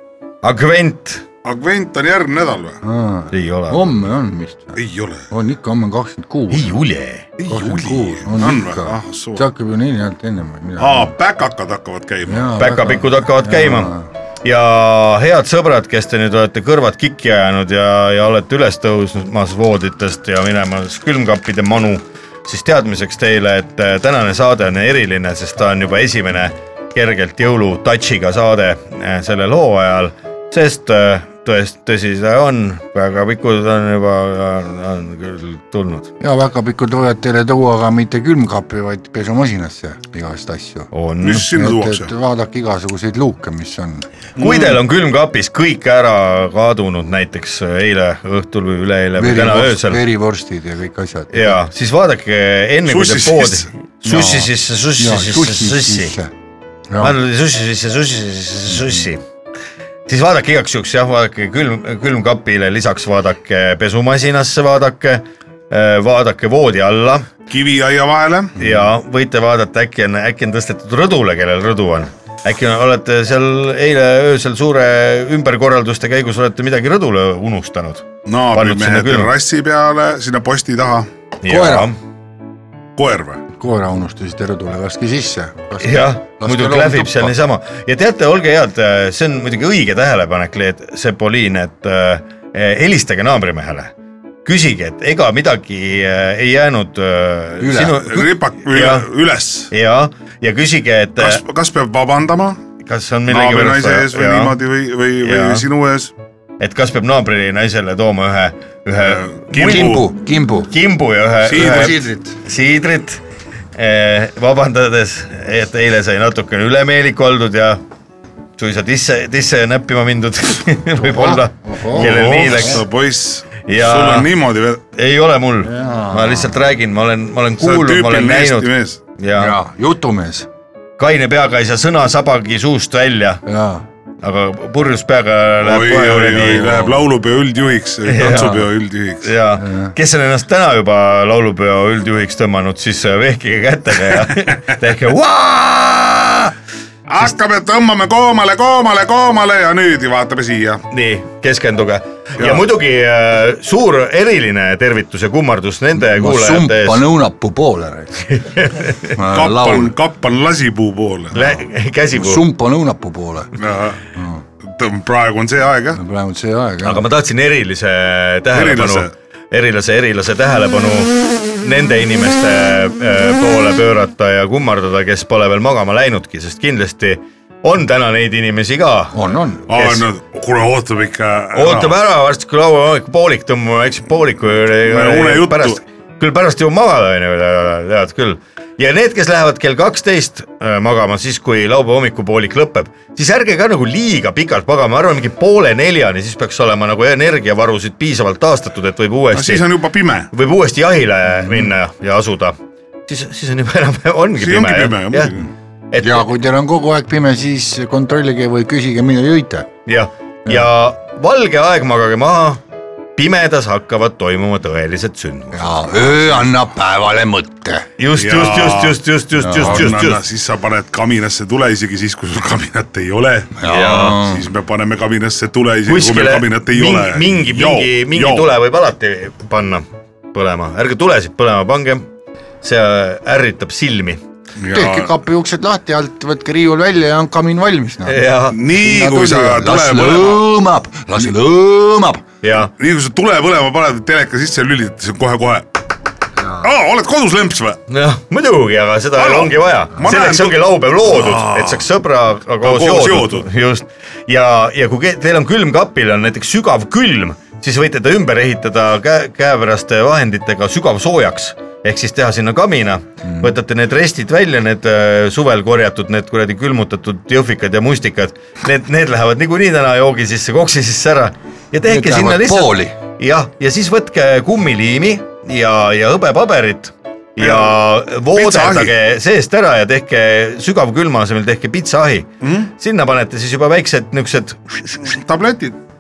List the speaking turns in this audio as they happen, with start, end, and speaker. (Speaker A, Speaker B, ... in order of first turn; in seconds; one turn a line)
Speaker A: 0.4-1.2
Speaker B: 1.4-2.8
Speaker C: 2.8-4.8
Speaker A: 3.3-3.9
Speaker B: 4.8-5.3
Speaker C: 5.3-6.7
Speaker A: 6.5-7.3
Speaker B: 7.4-9.5
Speaker C: 7.5-11.1
Speaker B: 10.8-12.5
Speaker C: 12.3-14.1
Speaker A: 12.6-36.1
Speaker C: 36.2-40.9
Speaker A: 40.9-41.5
Speaker B: 41.2-42.1
Speaker C: 41.5-44.1
Speaker B: 44.4-44.8
Speaker A: 44.4-50.0
Speaker C: 49.2-51.6
Speaker A: 51.3-56.1
Speaker B: 52.9-54.3
Speaker C: 54.1-56.3
Speaker C: 56.9-57.1
Speaker A: 57.0-59.2
Speaker A: 60.1-67.3
Speaker B: 67.5-68.6
Speaker A: 68.6-79.3
Speaker B: 78.3-81.1
Speaker A: 81.4-82.0
Speaker C: 81.5-81.9
Speaker B: 83.0-83.4
Speaker C: 83.6-87.3
Speaker A: 85.8-93.9
Speaker A: 94.5-99.1
Speaker C: 97.6-98.1
Speaker B: 97.9-99.7
Speaker A: 99.7-101.4
Speaker B: 101.2-102.6
Speaker A: 102.8-104.6
Speaker B: 103.3-106.1
Speaker A: 105.2-105.7
Speaker A: 106.6-110.0
Speaker B: 109.0-110.1
Speaker C: 109.6-110.7
Speaker A: 110.7-113.2
Speaker B: 111.5-112.0
Speaker C: 111.5-112.4
Speaker A: 113.8-117.8
Speaker A: 118.6-122.9
Speaker C: 121.0-122.7
Speaker B: 121.9-124.8
Speaker A: 123.6-124.3
Speaker A: 124.9-129.6
Speaker C: 125.6-126.6
Speaker B: 127.6-129.0
Speaker C: 129.4-130.5
Speaker A: 131.0-133.4
Speaker C: 133.5-133.8
Speaker A: 134.2-137.0
Speaker B: 135.6-139.3
Speaker A: 138.1-138.6
Speaker C: 138.2-138.7
Speaker A: 139.2-146.5
Speaker C: 139.6-139.9
Speaker B: 147.1-150.8
Speaker A: 150.9-157.1
Speaker B: 152.4-152.7
Speaker C: 156.0-158.3
Speaker A: 158.3-159.2
Speaker C: 159.2-159.9
Speaker B: 159.2-161.6
Speaker A: 161.3-162.4
Speaker C: 162.1-164.4
Speaker B: 163.6-164.0
Speaker B: 164.6-166.0
Speaker C: 165.9-167.0
Speaker A: 166.8-179.2
Speaker B: 168.5-169.1
Speaker C: 179.1-179.7
Speaker B: 179.7-182.0
Speaker A: 179.7-180.1
Speaker A: 181.5-199.7
Speaker B: 184.9-185.8
Speaker B: 199.3-200.3
Speaker A: 200.3-205.3
Speaker B: 204.4-205.5
Speaker A: 205.9-206.3
Speaker C: 206.0-209.7
Speaker A: 209.9-212.6
Speaker A: 213.2-216.3
Speaker C: 215.5-217.9
Speaker A: 218.0-220.2
Speaker B: 218.2-219.0
Speaker C: 219.4-219.9
Speaker B: 219.6-228.5
Speaker C: 223.6-224.5
Speaker A: 223.6-224.2
Speaker A: 225.9-232.1
Speaker A: 232.6-234.2
Speaker B: 234.6-235.1
Speaker C: 234.7-242.2
Speaker A: 238.1-238.6
Speaker B: 238.5-240.5
Speaker A: 242.4-242.7
Speaker B: 242.8-245.7
Speaker B: 246.6-247.8
Speaker A: 247.9-285.1
Speaker B: 249.2-251.9
Speaker B: 252.6-253.5
Speaker C: 263.2-263.5
Speaker C: 271.8-272.9
Speaker B: 277.4-277.8
Speaker B: 278.3-278.9
Speaker B: 282.4-282.7
Speaker B: 285.0-285.8